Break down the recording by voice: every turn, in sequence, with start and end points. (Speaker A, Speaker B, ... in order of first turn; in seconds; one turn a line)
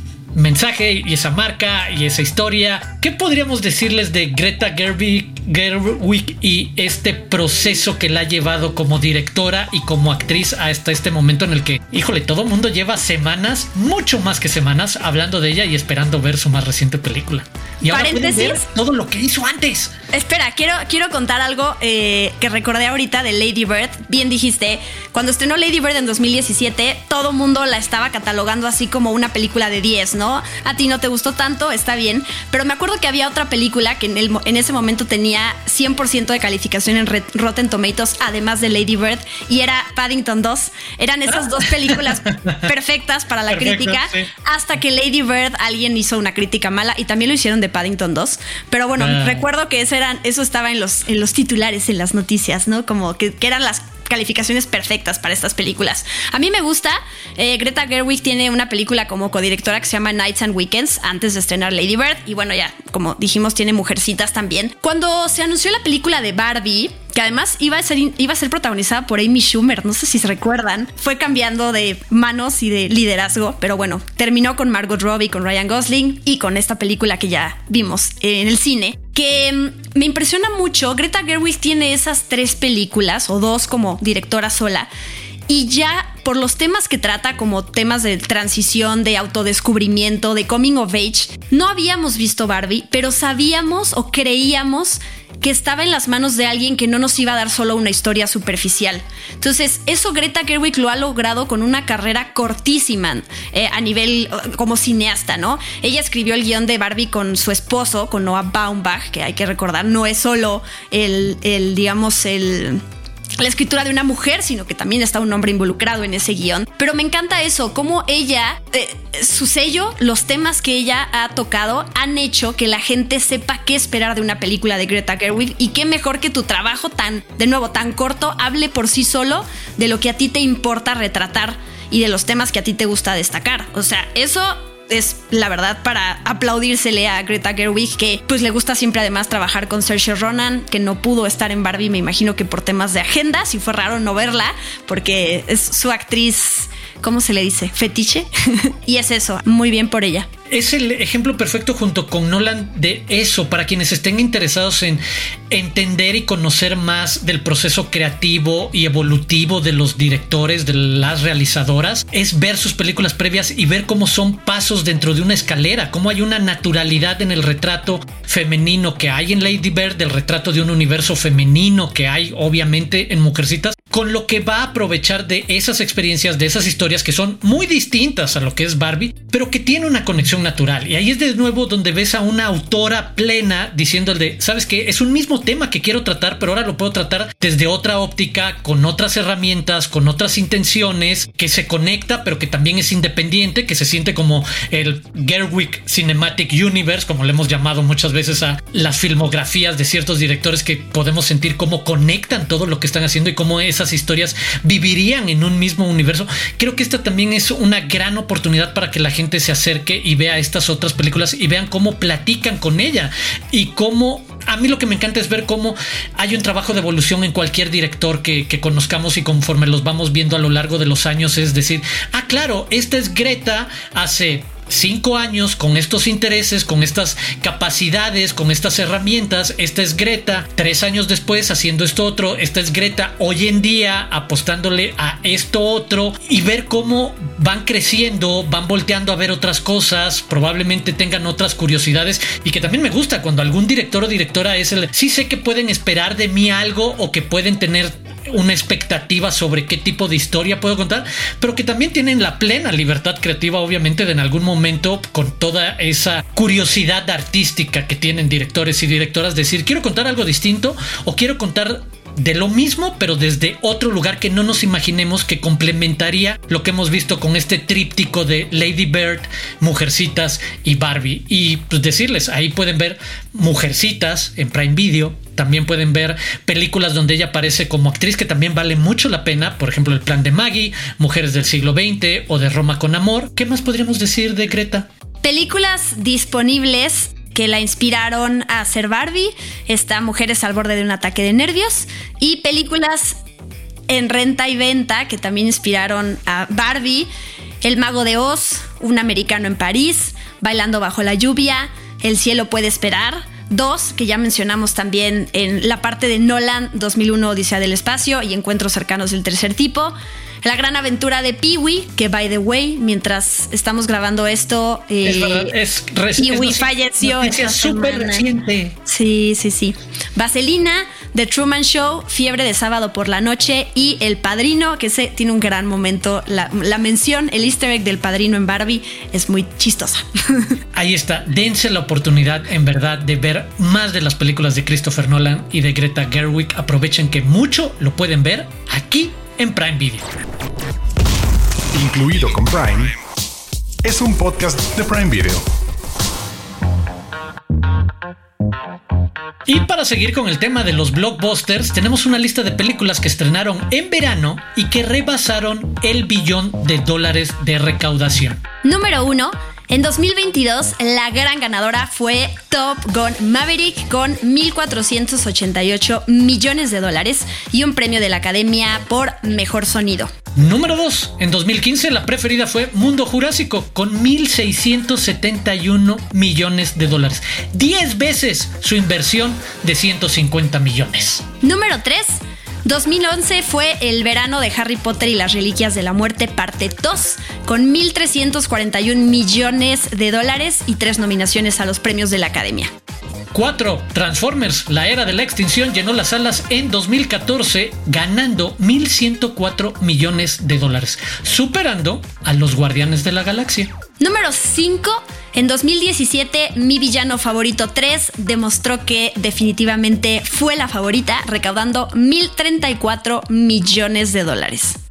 Speaker A: 0.3-19.9
Speaker B: 17.9-18.6
Speaker B: 20.1-84.9
Speaker A: 42.0-42.6
Speaker A: 43.5-44.3
Speaker A: 49.0-49.4
Speaker B: 85.5-112.8
Speaker B: 113.4-150.3
Speaker A: 150.5-284.9
Speaker B: 285.2-293.2
Speaker B: 293.9-297.1
Speaker B: 297.6-315.5
Speaker A: 315.0-318.8
Speaker B: 316.2-318.2
Speaker B: 318.8-330.6
Speaker A: 330.7-340.1
Speaker C: 341.7-342.9
Speaker C: 343.8-345.4
Speaker A: 349.4-358.4
Speaker B: 358.6-370.1
Speaker A: 370.4-381.2
Speaker B: 381.4-392.7
Speaker A: 393.3-403.7
Speaker B: 404.0-414.8